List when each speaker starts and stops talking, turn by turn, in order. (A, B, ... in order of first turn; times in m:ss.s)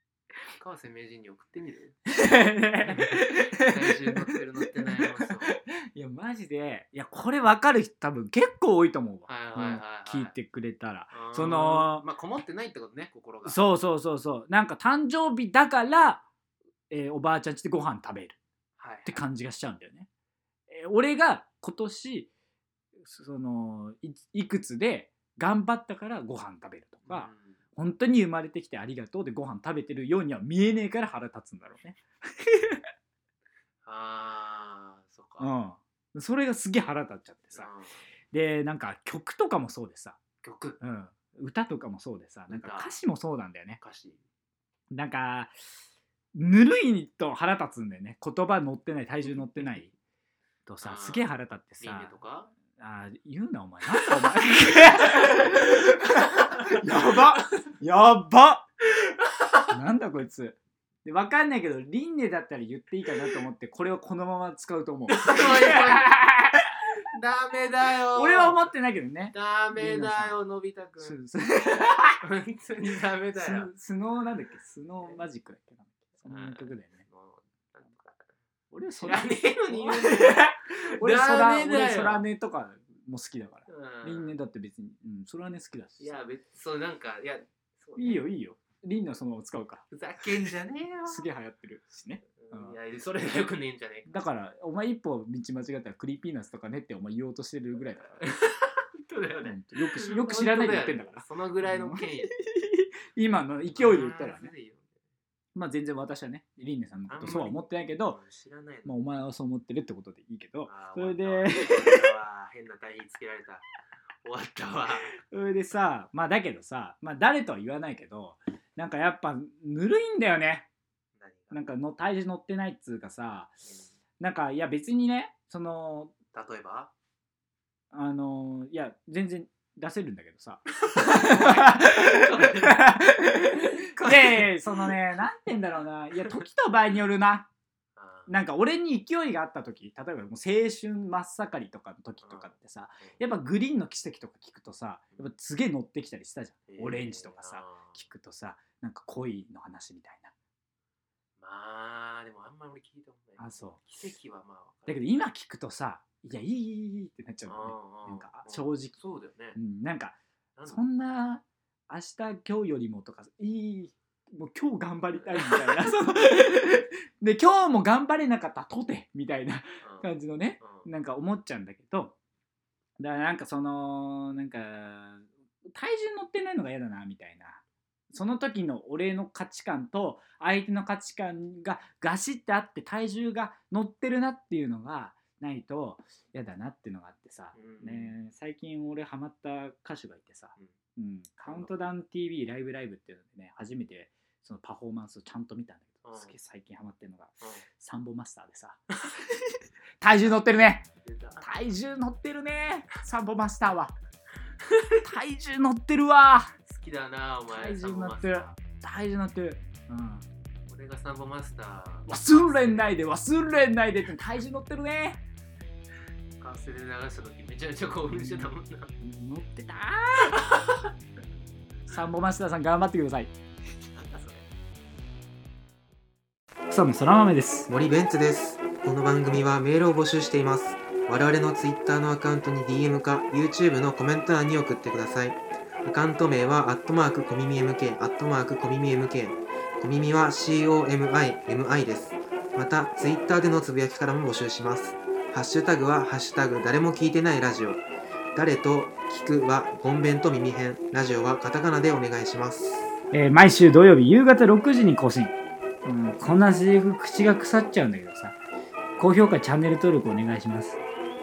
0:00.5-0:02.0 A
0:02.1-0:12.0 B
0:02.8-0:05.6 A
0:09.3-0:10.3 A
0:11.1-0:13.6 A
0:13.4-0:16.2 B
0:16.9-0:18.4 B
0:18.8-0:19.2 A
0:19.0-0:20.1 B
0:20.7-0:22.3 B
0:23.0-0:32.8 B
0:27.0-0:27.6 A
0:33.8-0:35.5 A
0:35.4-0:37.7 B
0:37.5-0:38.0 A
0:38.3-0:40.2 B
0:40.4-0:40.8 A
0:40.8-0:43.8 B
0:42.5-0:43.0 A
0:43.8-0:44.2 A
0:44.9-0:45.6 B
0:46.3-0:49.9 B
0:50.6-0:52.2 B
0:50.8-0:51.3 A
0:51.8-0:52.5 A
0:52.7-0:58.6 B
0:54.2-0:57.6 A
0:59.0-0:59.7 A
0:59.7-1:06.7 B
1:05.1-1:06.2 A
1:07.1-1:08.7 A
1:08.1-1:10.4 B
1:09.3-1:11.2 A
1:11.0-1:12.2 B
1:12.2-1:13.7 A
1:13.4-1:17.0 B
1:16.2-1:18.3 A
1:18.7-1:26.2 B
1:19.0-1:22.2 A
1:23.7-1:24.3 A
1:26.0-1:28.2 A
1:28.0-1:29.8 B
1:29.9-1:31.3 A
1:31.1-1:32.8 B
1:32.4-1:34.1 A
1:34.1-1:38.3 B
1:38.2-1:42.3 A
1:39.4-1:44.5 B
1:43.7-1:45.0 A
1:45.5-1:48.2 B
1:47.1-1:48.9 A
1:48.8-1:52.1 B
1:50.6-1:53.6 A
1:54.2-1:55.2 A
1:55.2-2:00.7 B
2:01.2-2:01.7 A
2:01.5-2:03.5 B
2:03.6-2:03.9 A
2:04.2-2:06.1 B
2:06.3-2:06.9 A
2:07.9-2:17.5 B
2:10.8-2:15.0 A
2:18.0-2:18.3 A
2:18.3-2:30.3 B
2:22.2-2:23.2 A
2:26.7-2:28.0 A
2:31.4-2:35.1 A
2:33.4-2:33.8 B
2:34.9-2:38.9 B
2:37.4-2:39.6 A
2:39.6-2:52.2 B
2:40.6-2:40.8 A
2:45.3-2:45.9 A
2:49.8-2:50.9 A
2:53.0-2:57.6 B
2:58.1-3:20.9 B
3:07.5-3:08.1 A
3:11.4-3:11.7 A
3:16.0-3:16.3 A
3:21.0-3:21.5 A
3:21.4-3:23.9 B
3:24.6-3:25.0 A
3:25.0-3:26.5 B
3:26.6-3:28.6 A
3:27.5-3:30.2 B
3:30.7-3:33.0 A
3:32.1-3:35.2 B
3:36.4-3:38.9 A
3:38.1-3:38.5 B
3:39.0-3:40.3 B
3:40.3-3:40.9 A
3:41.9-3:43.3 B
3:43.9-3:44.4 A
3:46.7-3:47.7 B
3:47.7-4:07.8 C
4:08.3-4:12.7 C
4:13.1-4:18.4 B
4:19.0-4:20.8 B